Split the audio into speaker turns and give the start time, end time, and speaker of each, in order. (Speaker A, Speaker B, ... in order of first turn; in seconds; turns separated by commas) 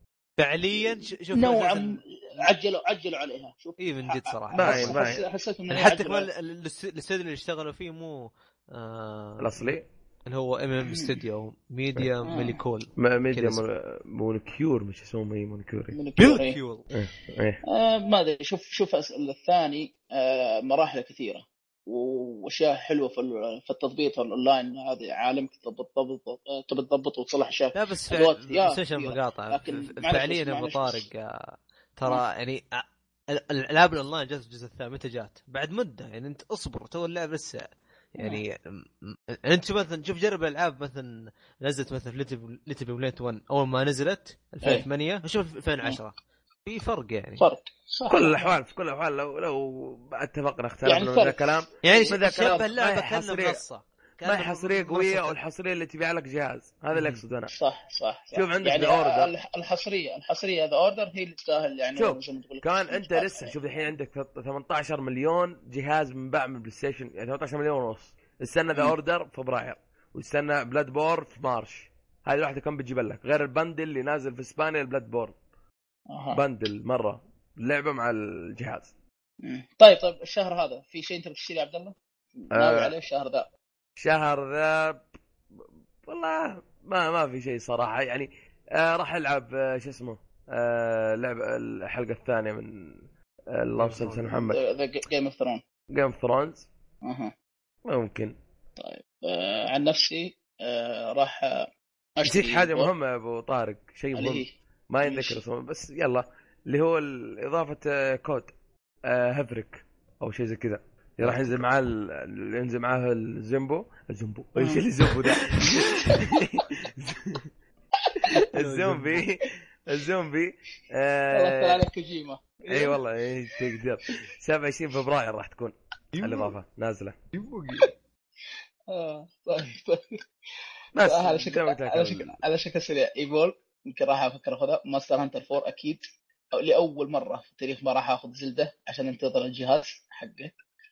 Speaker A: 0.4-2.5, Speaker B: 0.7-6.3, Speaker A: 3.8-5.1, Speaker C: 4.5-5.2, Speaker A: 5.7-13.6, Speaker C: 9.4-9.8, Speaker B: 10.8-11.2, Speaker B: 12.2-12.6, Speaker C: 13.0-16.0, Speaker B: 15.9-16.6, Speaker A: 16.2-16.9, Speaker C: 16.9-17.6, Speaker B: 17.6-31.0, Speaker A: 27.7-47.5, Speaker B: 47.4-48.5, Speaker C: 48.1-53.6, Speaker B: 50.8-52.7, Speaker A: 51.8-55.4, Speaker C: 54.2-57.5, Speaker A: 56.9-57.2, Speaker B: 57.5-63.6, Speaker C: 58.3-59.3, Speaker C: 62.0-75.3, Speaker B: 76.1-76.4, Speaker C: 76.3-78.9, Speaker B: 79.4-83.5, Speaker C: 82.5-82.9, Speaker C: 84.0-85.0, Speaker C: 85.6-92.9, Speaker C: 93.5-94.6, Speaker A: 93.8-94.2, Speaker B: 94.2-95.6, Speaker C: 95.9-96.7, Speaker B: 97.0-97.3, Speaker C: 97.9-98.3, Speaker B: 98.8-101.7, Speaker B: 102.2-102.9, Speaker C: 102.2-108.5, Speaker B: 104.1-104.5, Speaker B: 105.0-105.4, Speaker C: 109.1-117.5, Speaker A: 111.2-111.6, Speaker B: 114.5-116.6, Speaker B: 118.0-118.4, Speaker A: 118.5-119.2, Speaker C: 118.5-121.8, Speaker B: 121.3-123.8, Speaker C: 122.7-127.2, Speaker A: 127.3-127.9, Speaker B: 128.9-130.2, Speaker C: 130.9-132.4, Speaker B: 131.0-140.6